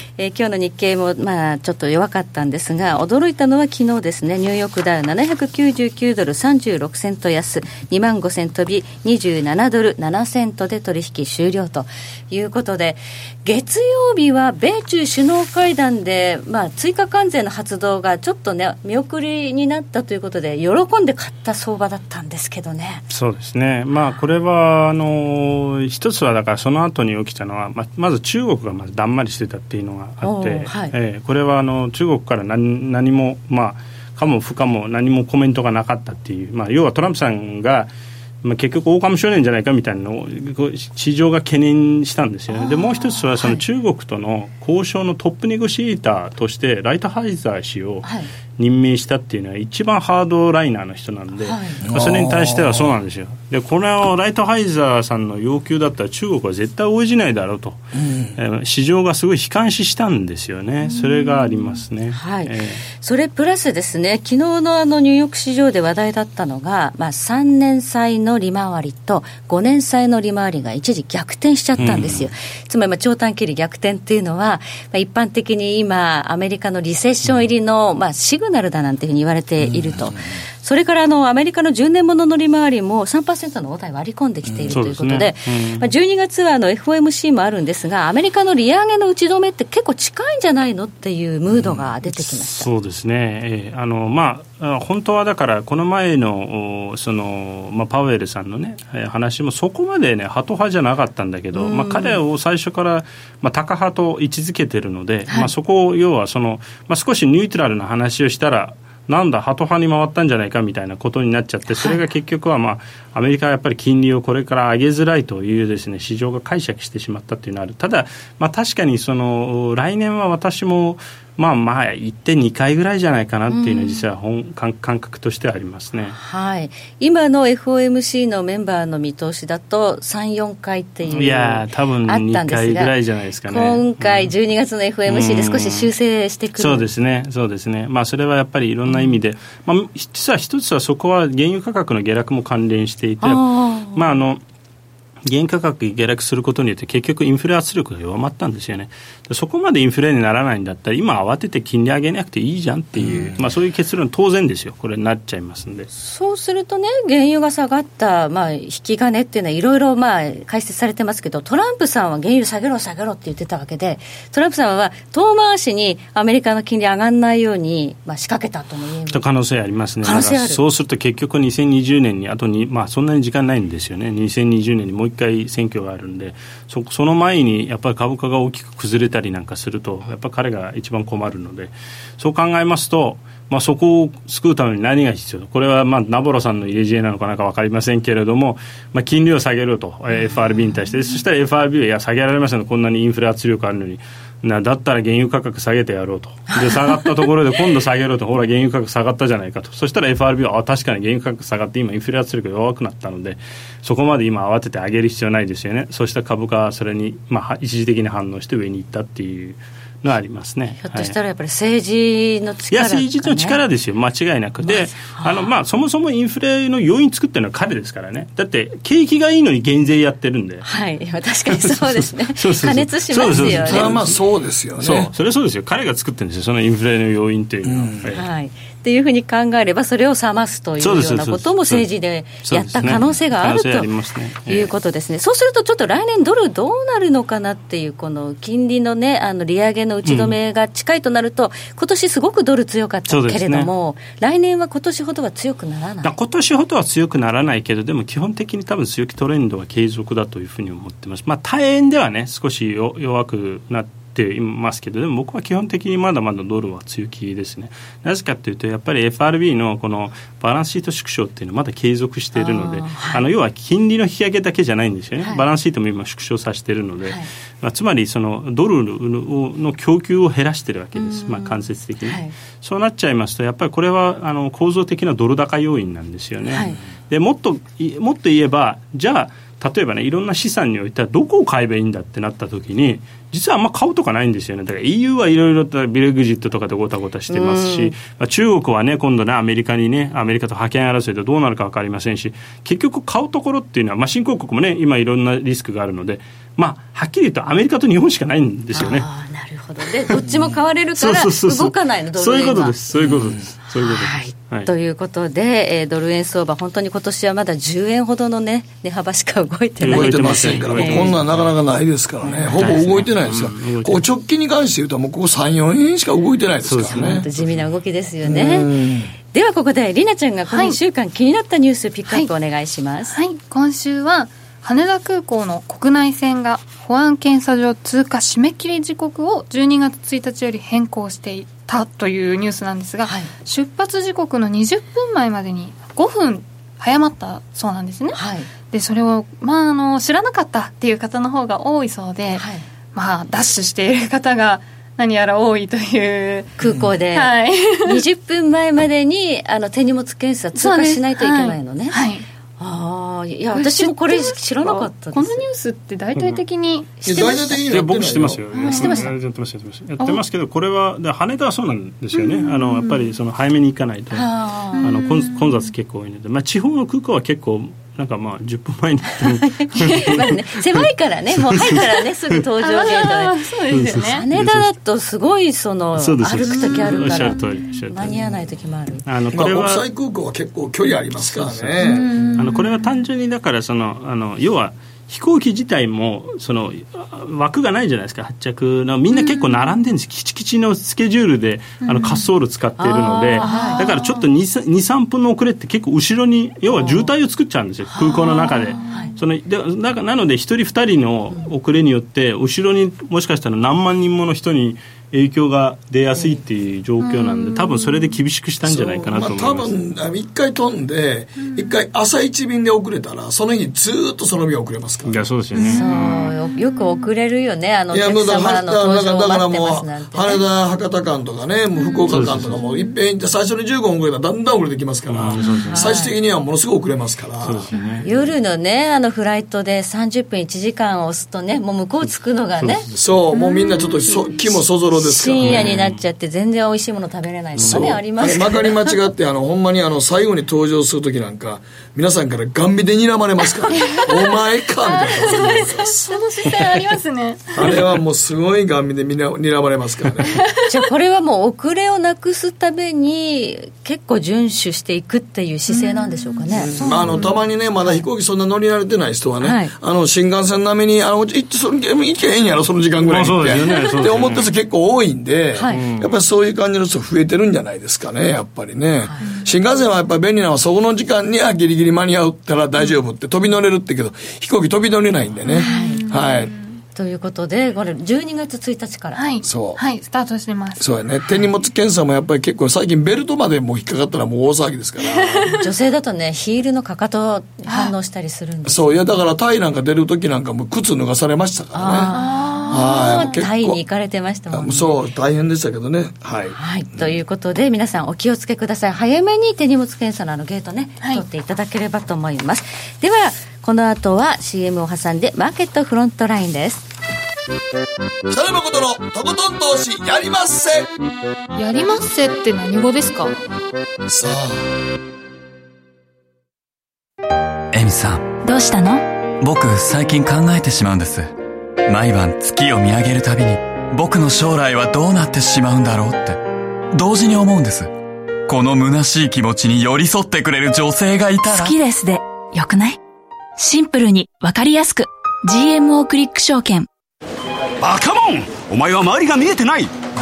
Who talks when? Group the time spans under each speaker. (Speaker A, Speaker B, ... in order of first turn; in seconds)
Speaker A: 0.2-23.0, 30.2-30.9, 42.5-43.6, 48.0-48.3, 51.4-51.8, 60.8-92.7, 101.5-102.2, 111.7-112.0, 123.5-124.1, 126.1-132.9, 133.5-136.9, 138.9-139.2, 143.2-144.2, 155.9-169.2, 170.0-170.6, 196.5-197.3, 210.8-213.6, 214.6-215.5, 220.6-223.9, 228.1-233.9, 234.5-246.1, 262.4-263.2, 271.0-272.4, 276.5-276.8, 287.3-288.0, 298.7-302.9, 303.7-311.1, 312.2-312.8, 316.9-318.7, 319.3-323.2, 333.1-333.3, 338.1-338.5, 342.4-342.6, 346.6-352.0, 352.6-355.5, 364.1-364.9, 369.5-373.4, 373.9-379.0, 392.8-393.9, 396.7-397.1, 398.7-399.1, 406.1-406.4, 415.6-420.4, 425.5-426.1, 428.0-432.9, 434.9-438.9, 450.7-457.2, 459.4-459.7, 465.6-465.8, 469.0-469.3, 475.6-476.0, 476.9-479.2, 485.6-488.9, 491.7-495.0, 496.6-506.9
Speaker B: 23.1-37.9, 38.4-57.8, 58.4-62.8, 71.8-72.3, 84.7-85.9, 92.2-126.2, 131.1-134.3, 135.1-135.9, 136.6-144.4, 145.2-155.9, 169.1-211.1, 212.7-220.7, 221.5-224.2, 224.8-228.3, 230.8-231.9, 232.4-234.7, 240.1-240.3, 243.1-243.7, 246.0-299.1, 301.0-304.7, 309.8-311.5, 312.6-314.1, 316.6-317.7, 356.1-356.4, 357.7-370.3, 373.7-374.7, 376.0-378.1, 379.1-379.9, 381.2-381.8, 382.4-409.7, 415.1-416.2, 422.1-422.5, 425.1-425.9, 427.4-428.1, 435.4-436.0, 437.6-438.0, 463.1-464.5, 465.7-466.2
Speaker C: 51.9-52.9, 58.0-58.4, 79.6-80.2, 84.5-84.8, 153.0-153.4, 223.3-225.1, 227.7-228.0, 300.3-300.5, 303.0-303.4, 309.9-317.3, 318.2-319.1, 357.0-359.1, 379.3-382.2, 408.6-415.2, 417.9-428.3, 432.9-435.8, 437.6-446.2, 447.5-450.4, 456.5-476.5, 479.4-479.8, 480.8-485.6, 488.7-492.1, 492.7-493.8, 494.5-497.1, 508.3-510.9, 514.1-514.6
Speaker D: 320.5-320.8, 323.1-346.5, 347.1-348.0, 350.6-352.2, 353.5-357.6, 358.5-359.1, 362.1-363.0, 364.7-365.7, 372.6-374.2, 376.5-377.4, 381.8-382.9, 389.1-389.6, 391.8-392.2, 393.4-394.2, 397.9-399.1, 407.0-408.1, 411.4-411.7, 415.6-417.1, 421.8-422.9, 433.3-434.1, 443.8-444.3, 444.9-447.8, 455.7-457.4, 475.5-476.8, 479.2-480.9, 487.7-487.9, 492.1-493.3, 511.6-513.4
Speaker E: 517.7-518.2, 519.4-521.3, 521.9-526.4, 526.9-527.9, 528.5-531.8
Speaker F: 518.4-519.0, 531.4-533.0, 533.6-536.9
Speaker G: 537.8-539.9